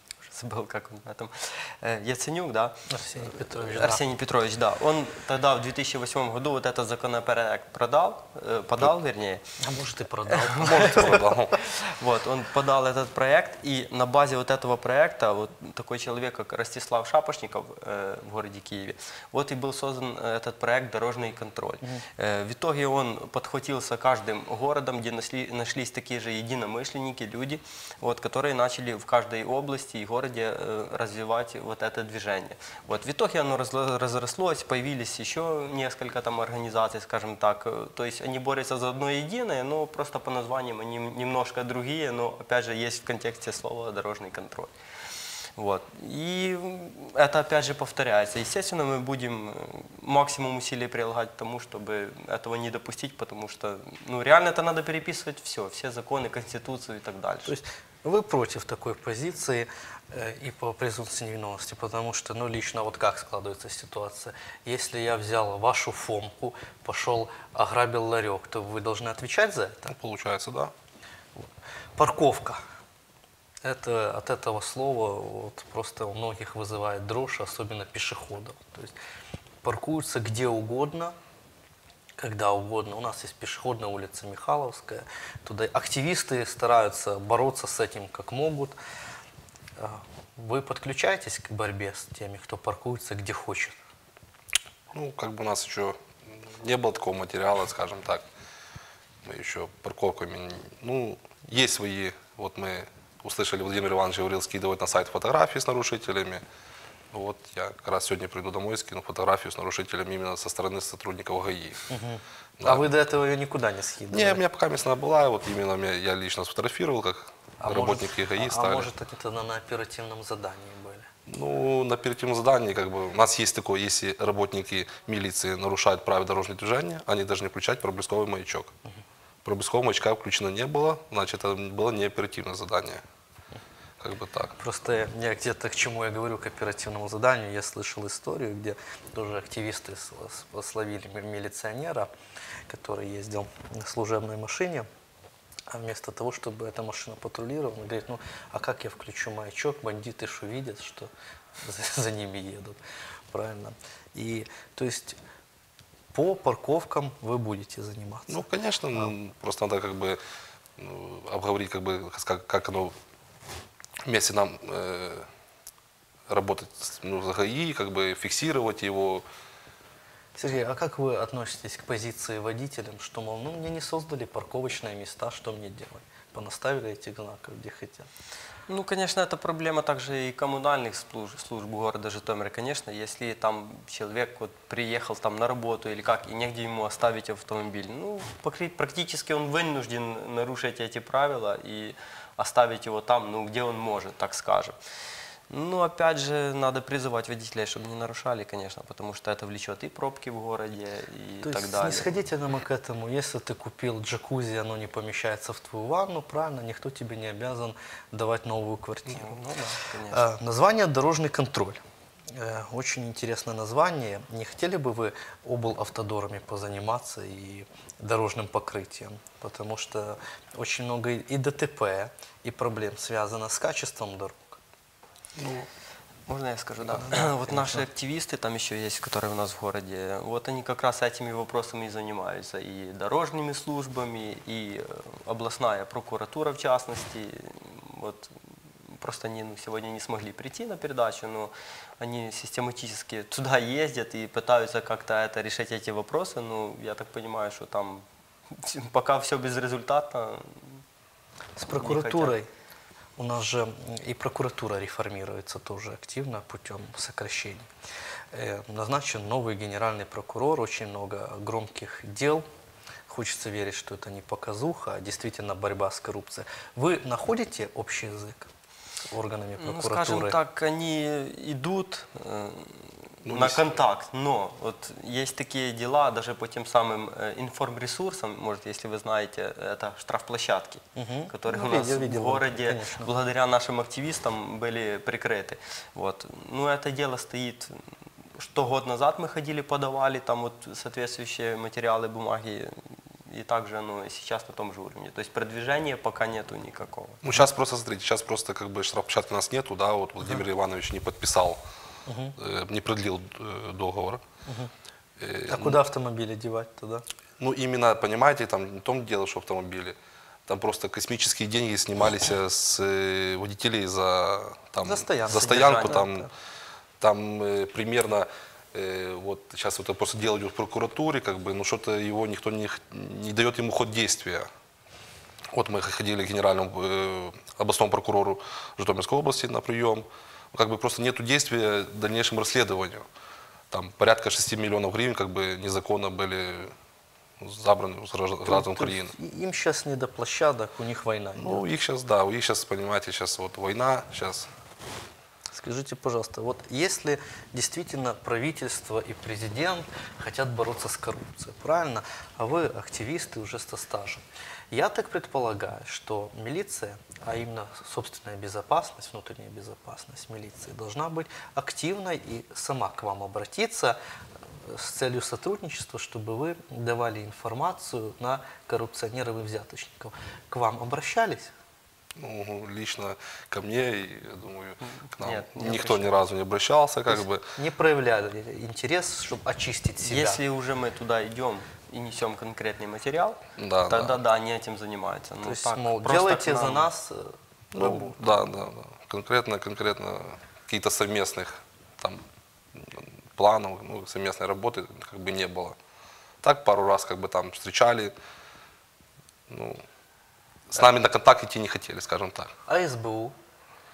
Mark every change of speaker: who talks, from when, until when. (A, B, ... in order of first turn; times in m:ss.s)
0:00.3-0:09.4 A
0:02.9-0:04.0 B
0:09.6-0:11.2 B
0:10.3-0:44.7 A
0:10.6-0:11.6 C
0:45.6-0:57.6 A
0:57.5-1:10.0 B
1:09.9-1:10.7 C
1:12.0-1:12.6 B
1:13.6-1:19.0 B
1:19.6-1:21.2 B
1:22.2-1:28.8 B
1:29.8-1:33.8 B
1:34.9-1:38.3 C
1:39.2-1:46.4 C
1:47.1-1:51.9 C
1:51.9-1:54.4 B
1:52.6-1:52.9 C
1:54.1-1:58.9 C
1:57.6-2:01.1 B
2:01.3-2:08.7 C
2:09.4-2:13.0 C
2:14.0-2:14.6 C
2:14.6-2:22.1 B
2:22.7-2:24.9 B
2:25.7-2:32.8 B
2:33.3-2:35.2 B
2:36.1-2:38.5 B
2:38.3-2:40.2 C
2:40.8-2:42.9 C
2:44.0-2:45.3 C
2:46.3-2:49.2 C
2:50.4-2:58.1 B
2:58.7-3:14.8 A
3:15.5-3:22.1 A
3:21.4-3:29.4 B
3:29.1-3:30.2 A
3:30.1-3:44.6 B
3:45.4-3:45.7 C
3:46.3-4:10.8 A
3:47.0-3:47.8 B
4:11.6-4:12.5 B
4:11.8-4:12.4 A
4:13.2-4:17.7 B
4:18.3-4:22.4 B
4:23.1-4:28.5 B
4:29.1-4:30.4 B
4:29.6-4:47.8 A
4:33.2-4:33.8 C
4:41.0-4:43.1 B
4:48.4-4:57.2 A
4:57.2-5:01.6 C
5:02.1-5:02.4 B
5:02.4-5:04.2 C
5:04.5-5:04.7 B
5:05.2-5:05.8 C
5:05.5-5:07.0 B
5:07.4-5:10.0 C
5:10.5-5:16.3 C
5:14.8-5:16.3 B
5:17.0-5:24.5 C
5:25.5-5:33.0 C
5:33.7-5:36.7 C
5:37.4-5:39.1 C
5:38.5-5:41.6 B
5:41.4-5:44.5 C
5:45.5-6:04.0 B
6:04.6-6:11.5 B
6:12.2-6:17.4 C
6:15.0-6:16.2 A
6:17.1-6:20.4 B
6:20.0-6:26.9 A
6:23.6-6:24.2 C
6:25.4-6:28.4 B
6:27.7-6:35.8 C
6:36.4-6:38.1 C
6:39.5-6:39.8 C
6:40.7-6:42.5 C
6:42.7-6:43.4 B